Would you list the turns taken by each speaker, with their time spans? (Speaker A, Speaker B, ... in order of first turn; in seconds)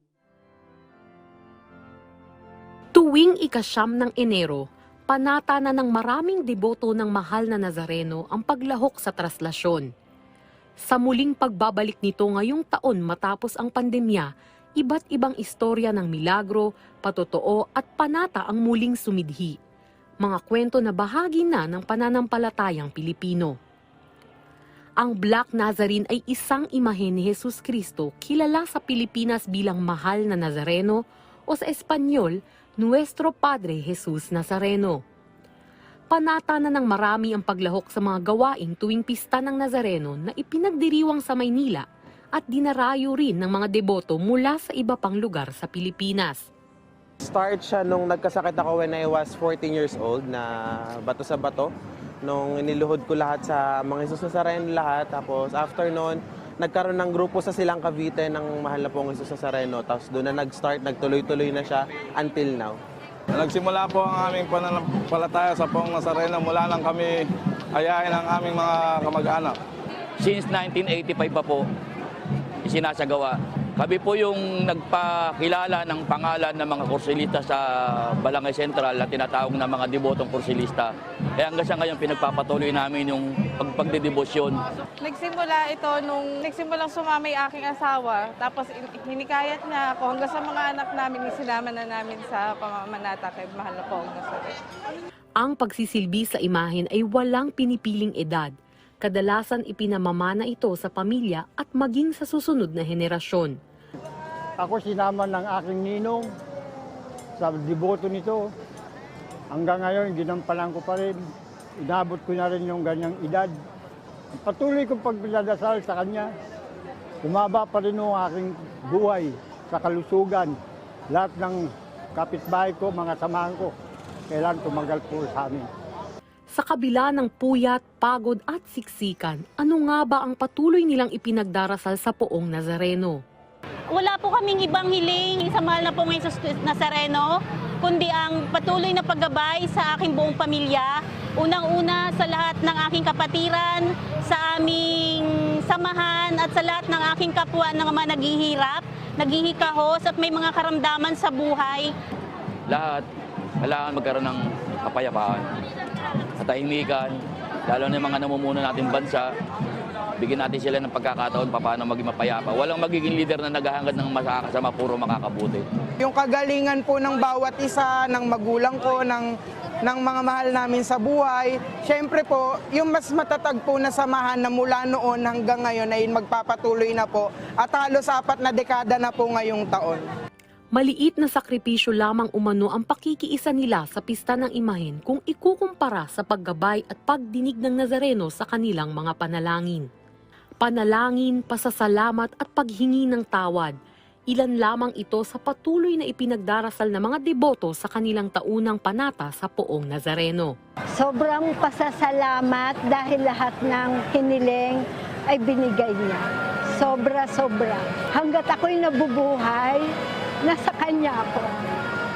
Speaker A: 3.0-9.9, 10.8-19.6, 20.2-23.6, 25.0-35.0, 36.1-46.4, 95.4-103.6, 126.5-133.2, 180.7-189.9, 190.6-193.8, 194.3-200.6
Speaker B: 47.2-51.7, 52.2-62.8
Speaker C: 63.4-67.2, 67.8-69.5
Speaker D: 70.2-71.7, 72.7-84.6, 152.7-153.1, 153.6-155.4, 156.4-159.3, 160.2-165.7
Speaker E: 85.0-94.5
Speaker F: 104.6-106.3, 107.4-108.4, 109.5-111.2, 111.8-113.5, 114.4-116.3, 117.2-120.5, 121.1-121.6, 122.2-123.7, 124.3-125.7
Speaker G: 133.9-151.9
Speaker H: 166.0-169.3, 169.8-180.0
Speaker I: 201.0-206.2, 206.8-209.8, 210.4-211.5